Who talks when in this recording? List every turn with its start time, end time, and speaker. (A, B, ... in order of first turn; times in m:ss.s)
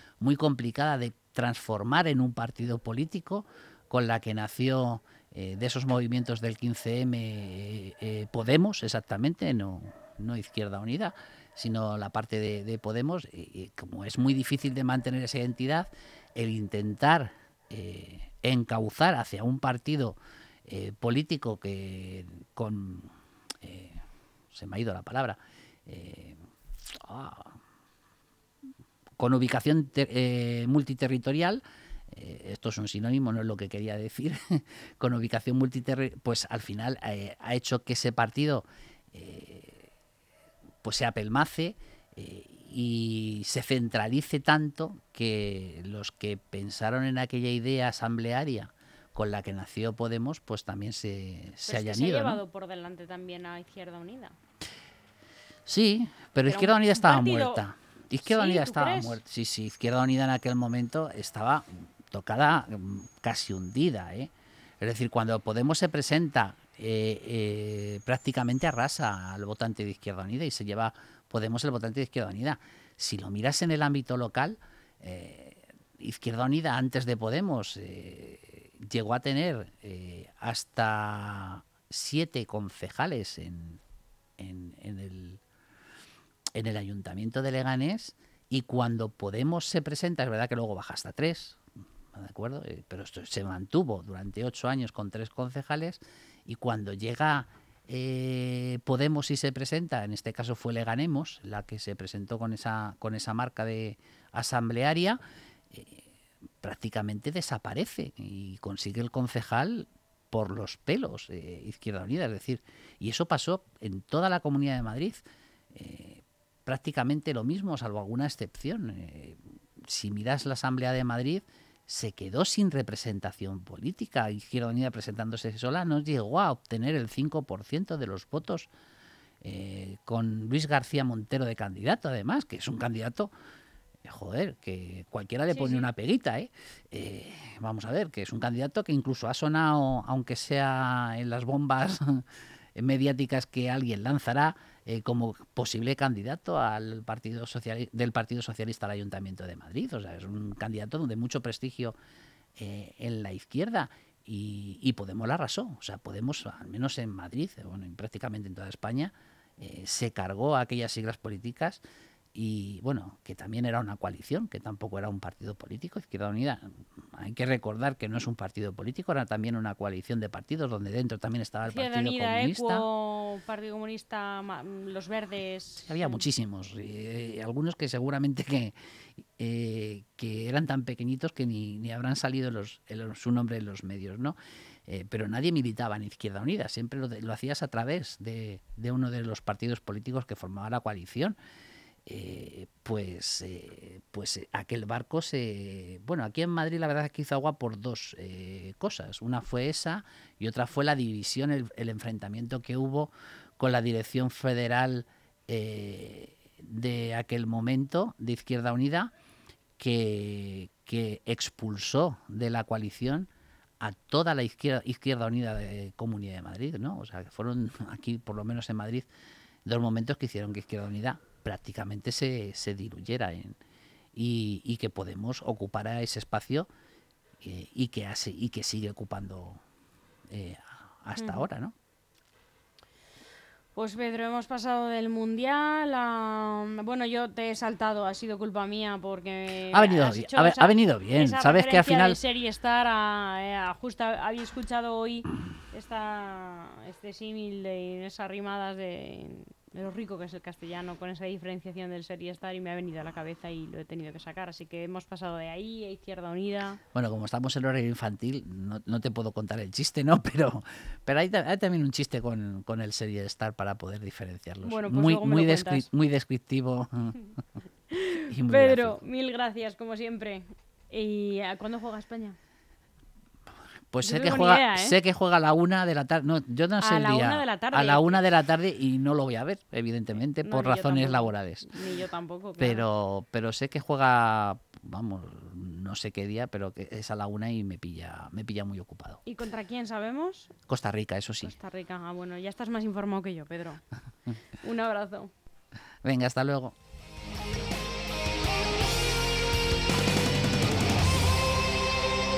0:00.2-0:27.6 A
0:29.2-0:39.9 A
0:40.8-0:52.4 A
0:51.7-0:54.4 B
0:55.6-1:23.8 A
0:56.4-0:57.6 B
0:58.2-0:59.2 B
1:24.4-1:25.4 A
1:26.5-1:31.6 A
1:32.1-1:46.1 A
1:46.6-2:08.7 A
2:09.4-2:13.3 A
2:14.0-2:31.9 A
2:15.5-2:15.9 B
2:32.6-2:41.8 A
2:42.3-2:52.8 A
2:51.6-2:56.2 B
2:55.8-3:04.4 A
3:04.9-3:11.4 A
3:12.0-3:29.1 A
3:29.8-3:33.3 A
3:33.8-3:39.1 A
3:39.6-3:43.6 A
3:44.1-3:46.7 A
3:47.4-3:49.6 A
3:50.3-3:51.7 A
3:51.2-3:51.4 B
3:53.7-4:16.8 B
3:59.7-4:02.2 A
4:16.9-4:27.2 A
4:24.6-4:25.9 B
4:27.9-4:32.4 B
4:28.3-4:29.0 A
4:33.9-4:41.7 A
4:34.0-4:34.9 B
4:36.8-4:38.2 B
4:40.4-4:42.8 B
4:42.6-4:49.2 A
4:49.2-4:50.5 B
4:50.7-4:51.5 A
4:51.4-4:53.8 B
4:54.5-4:55.3 B
4:56.0-4:56.7 A